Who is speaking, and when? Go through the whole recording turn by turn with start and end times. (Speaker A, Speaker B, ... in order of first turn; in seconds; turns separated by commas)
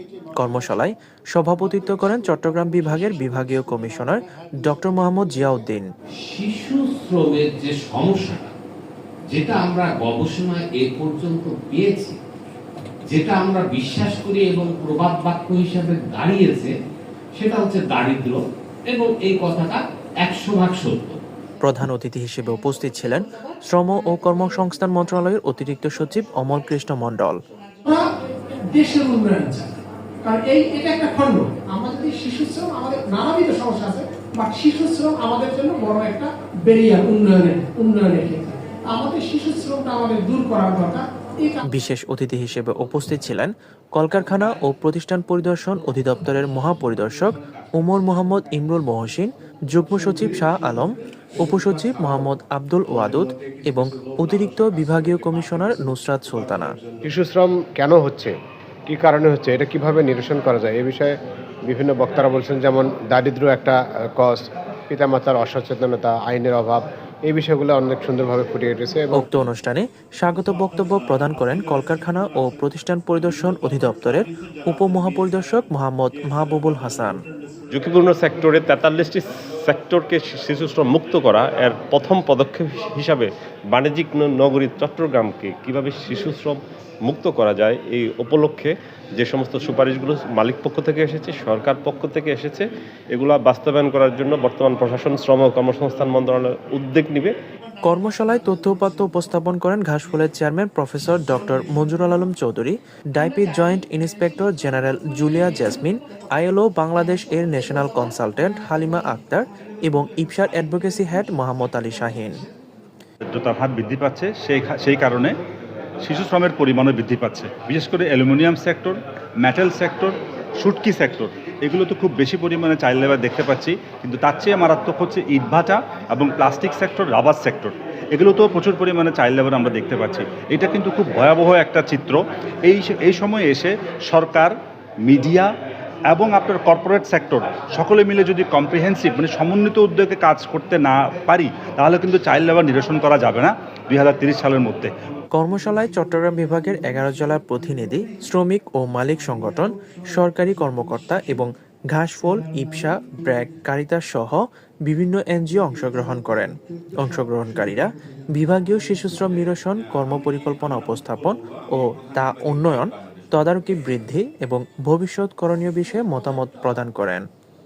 Speaker A: 0.4-5.9, Speaker B: 6.2-8.5, Speaker B: 9.3-12.2, Speaker B: 13.1-16.7, Speaker B: 17.4-21.2, Speaker A: 21.6-27.4, Speaker C: 27.9-41.6, Speaker A: 41.7-56.8, Speaker D: 57.0-58.3, Speaker D: 58.9-61.1, Speaker D: 61.7-69.3, Speaker A: 69.2-77.2, Speaker E: 77.7-97.3, Speaker A: 97.9-112.4, Speaker F: 113.3-115.3, Speaker F: 116.0-134.6, Speaker F: 135.1-135.5, Speaker F: 136.1-144.9, Speaker A: 145.3-167.2